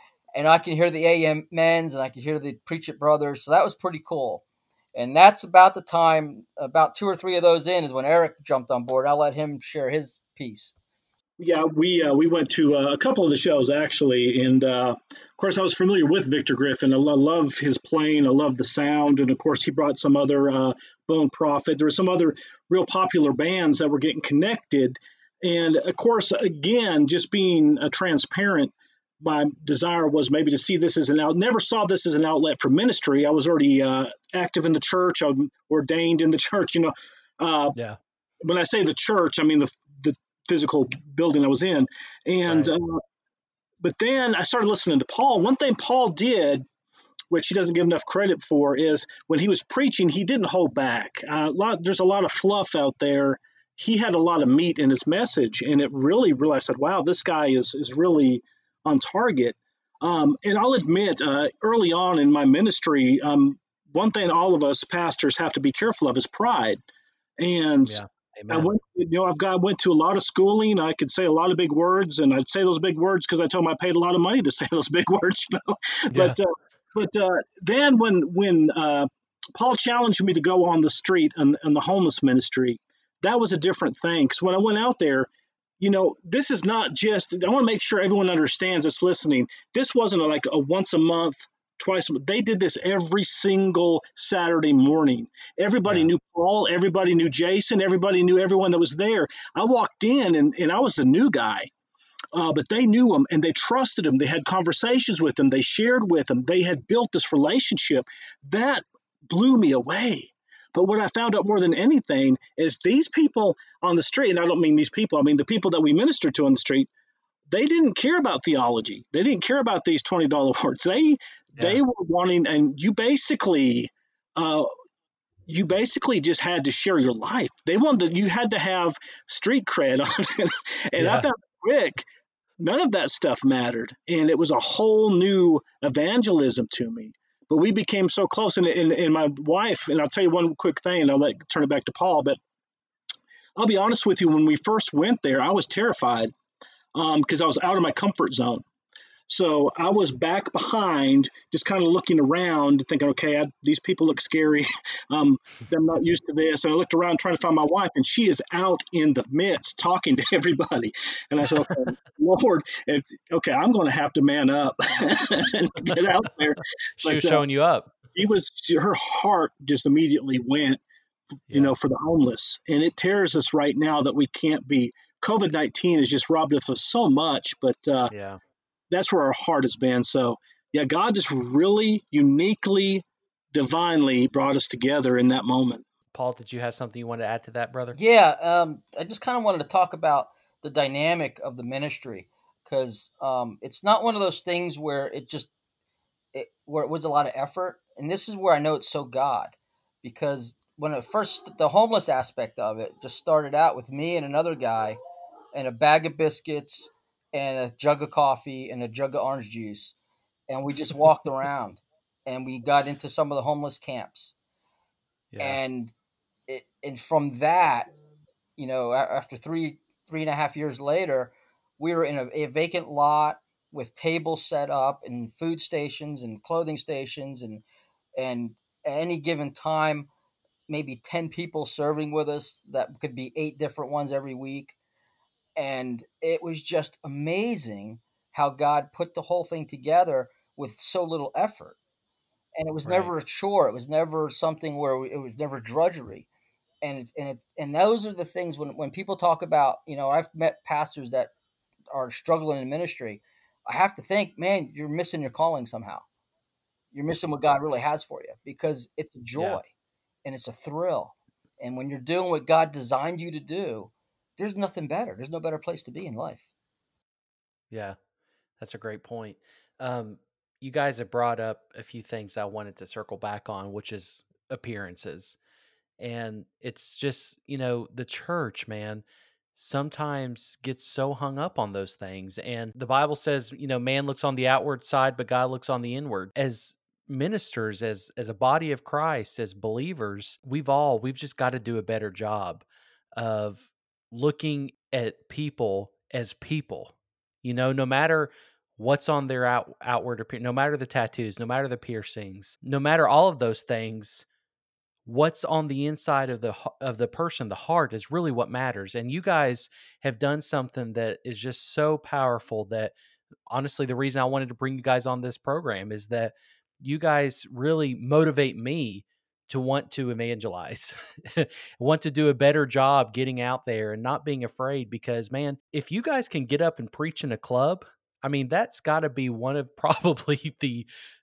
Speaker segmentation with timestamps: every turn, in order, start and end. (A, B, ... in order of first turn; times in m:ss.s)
0:00.4-0:04.4 A
0:05.0-0:10.7 A
0:11.4-0:37.8 B
0:38.4-0:43.0 B
0:42.5-0:42.7 C
0:43.8-0:46.6 B
0:47.3-1:06.8 B
1:07.4-1:25.3 B
1:07.9-1:08.7 C
1:25.8-1:41.7 B
1:42.3-1:56.9 B
1:57.5-2:04.7 B
2:05.5-2:12.1 B
2:11.0-2:11.3 C
2:12.6-2:22.4 B
2:23.6-2:26.3 B
2:27.0-2:28.6 B
2:29.3-2:47.4 B
2:47.0-2:48.0 C
2:48.1-2:50.8 B
2:51.5-2:51.8 C
2:51.5-2:58.1 B
2:58.1-2:58.4 C
2:58.9-3:05.8 B
3:06.1-3:08.0 C
3:08.0-3:15.5 A
3:16.3-3:25.0 A
3:25.5-3:30.0 A
3:30.5-3:34.4 A
3:35.3-3:35.6 C
3:35.4-3:35.9 A
3:36.5-3:37.9 A
3:38.6-3:47.6 A
3:48.2-3:50.1 A
3:50.7-3:54.8 A
3:55.6-4:01.8 A
4:02.6-4:06.3 A
4:02.8-4:03.1 C
4:06.8-4:11.3 A
4:11.9-4:16.0 A
4:16.9-4:19.7 A
4:19.4-4:19.6 C
4:20.2-4:26.4 A
4:27.7-4:28.0 C
4:28.6-4:35.4 C
4:36.0-4:39.0 C
4:39.5-4:52.6 C
4:53.2-5:04.2 C
5:05.1-5:12.9 C
5:13.5-5:30.9 C